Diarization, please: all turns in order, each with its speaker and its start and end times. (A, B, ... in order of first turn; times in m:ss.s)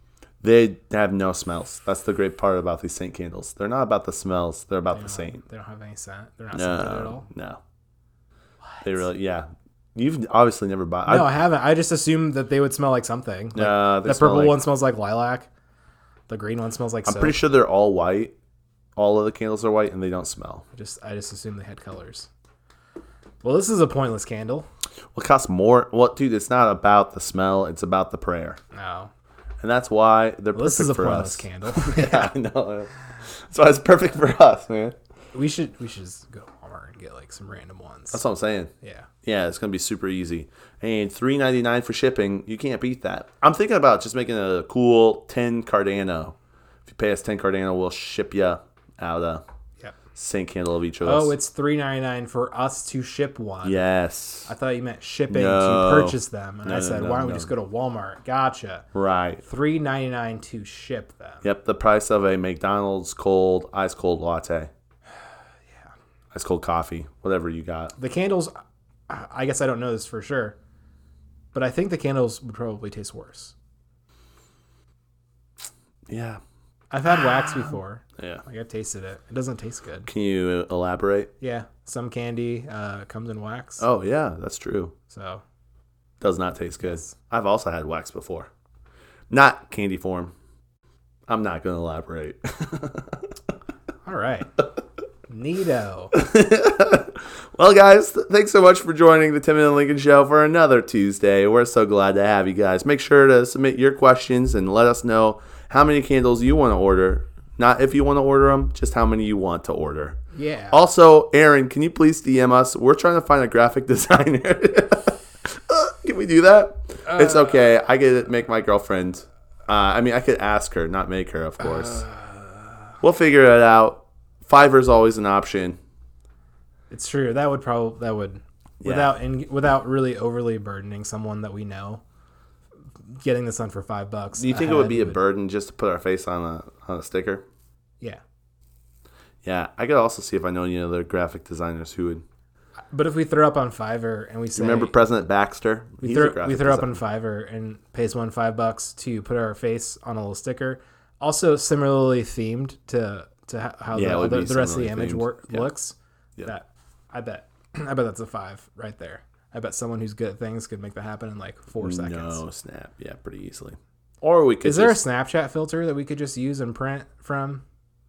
0:00.4-0:05.4 A
0:04.9-0:07.2 B
0:06.5-0:07.6 A
0:08.7-0:09.0 B
0:08.8-0:11.3 A
0:11.0-0:15.5 B
0:13.5-0:14.6 A
0:16.3-0:17.4 B
0:17.0-0:18.3 A
0:19.0-0:20.6 A
0:20.7-0:22.3 B
0:23.4-0:24.7 B
0:25.1-0:28.6 A
0:28.7-0:29.1 B
0:29.6-0:34.9 A
0:30.5-0:32.4 B
0:35.3-0:38.2 B
0:38.1-0:38.7 A
0:38.8-0:39.1 B
0:39.2-0:46.3 A
0:46.8-0:49.4 A
0:50.1-0:51.3 A
0:51.0-0:53.8 B
0:53.6-0:54.5 A
0:54.5-0:58.8 B
0:55.3-0:57.5 A
0:58.9-0:59.4 A
0:59.4-1:01.4 B
1:01.4-1:04.7 A
1:06.3-1:07.9 A
1:08.0-1:08.5 B
1:09.1-1:10.6 B
1:11.5-1:13.5 B
1:16.1-1:16.4 A
1:16.9-1:20.1 B
1:20.0-1:21.3 A
1:21.4-1:23.8 B
1:23.8-1:24.9 A
1:25.1-1:25.4 B
1:26.2-1:28.5 A
1:26.8-1:27.1 B
1:29.3-1:30.3 A
1:31.3-1:33.2 A
1:34.0-1:34.5 B
1:35.3-1:36.1 B
1:36.1-1:50.2 A
1:50.3-1:50.8 B
1:50.7-2:02.0 A
1:57.1-1:57.6 B
2:01.6-2:02.4 B
2:03.0-2:05.8 A
2:06.9-2:12.0 B
2:08.8-2:09.1 A
2:13.2-2:15.2 B
2:14.4-2:17.4 A
2:19.4-2:22.2 A
2:22.9-2:24.9 B
2:24.6-2:27.0 A
2:26.0-2:42.4 B
2:33.9-2:35.7 A
2:41.8-2:45.0 A
2:44.6-2:47.6 B